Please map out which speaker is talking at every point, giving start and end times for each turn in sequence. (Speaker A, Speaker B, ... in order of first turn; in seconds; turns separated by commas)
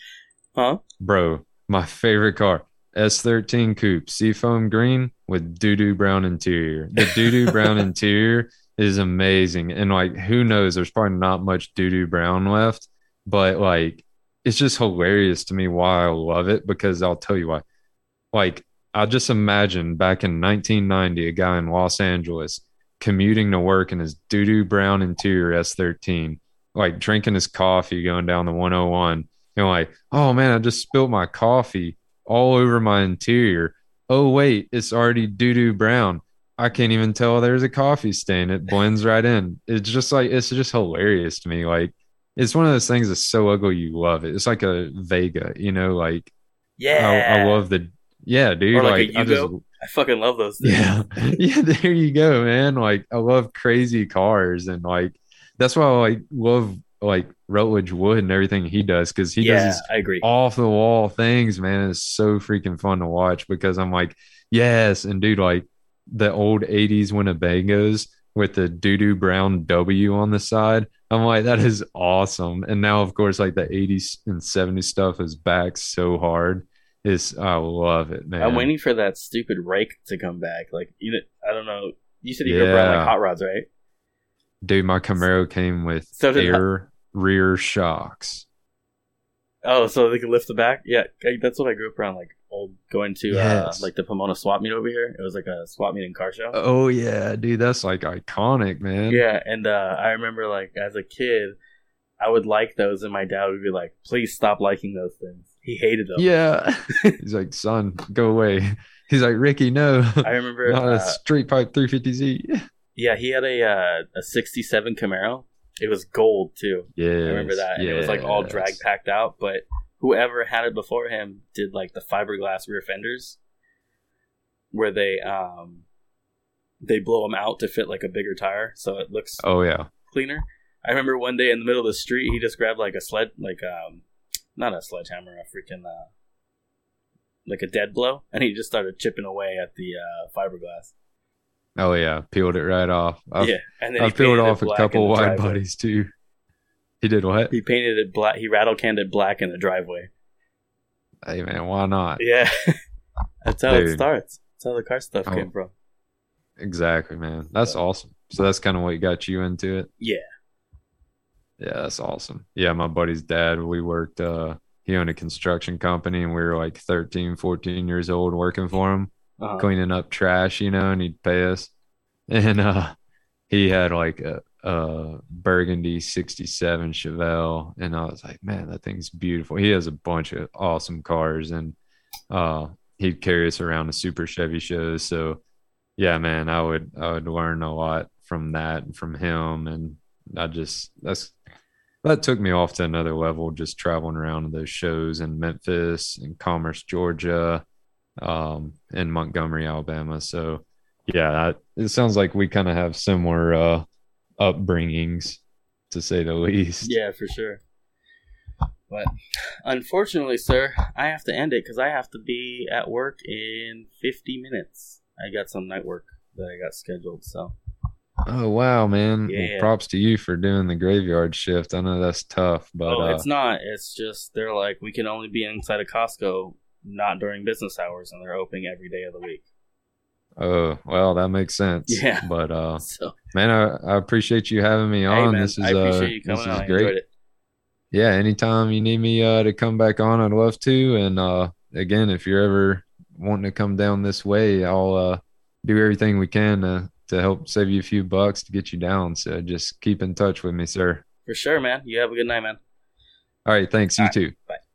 Speaker A: 0.5-0.8, Speaker B: 1.0-17.6, Speaker A: 7.0-7.9, Speaker B: 18.3-46.3, Speaker A: 46.8-47.6, Speaker B: 46.9-49.6, Speaker A: 48.7-51.4, Speaker B: 50.6-78.7, Speaker A: 59.4-60.2, Speaker A: 78.4-83.7, Speaker B: 82.4-83.2, Speaker B: 84.6-88.5, Speaker A: 86.2-86.6, Speaker A: 89.6-96.6, Speaker B: 93.3-93.9, Speaker B: 96.5-99.2, Speaker A: 99.1-101.5, Speaker A: 102.2-106.3, Speaker B: 106.2-112.6, Speaker A: 106.9-107.2, Speaker A: 110.2-111.2, Speaker A: 113.0-123.4, Speaker B: 116.9-118.8, Speaker A: 124.7-125.8, Speaker A: 126.8-129.4, Speaker B: 129.4-129.9, Speaker A: 130.1-134.0, Speaker A: 134.6-136.1, Speaker A: 137.4-140.9, Speaker B: 141.8-146.1, Speaker A: 143.4-145.6, Speaker B: 147.0-147.5, Speaker A: 147.5-150.1, Speaker B: 151.2-152.2, Speaker A: 152.2-152.8, Speaker A: 153.4-155.7, Speaker B: 153.7-154.1, Speaker B: 156.6-159.9, Speaker B: 161.6-171.7, Speaker A: 169.4-169.7, Speaker B: 172.3-172.9, Speaker B: 173.5-181.8, Speaker B: 182.3-185.4, Speaker B: 186.0-191.4, Speaker B: 192.0-197.6, Speaker B: 198.2-203.8, Speaker B: 204.4-206.9, Speaker A: 206.8-207.6, Speaker A: 209.6-217.5, Speaker B: 218.2-223.2, Speaker A: 219.3-219.7, Speaker A: 222.8-229.4, Speaker B: 230.4-236.9, Speaker A: 231.9-233.1, Speaker A: 235.1-237.1, Speaker B: 237.9-251.0, Speaker A: 251.2-252.6, Speaker B: 253.4-254.3, Speaker A: 254.0-254.6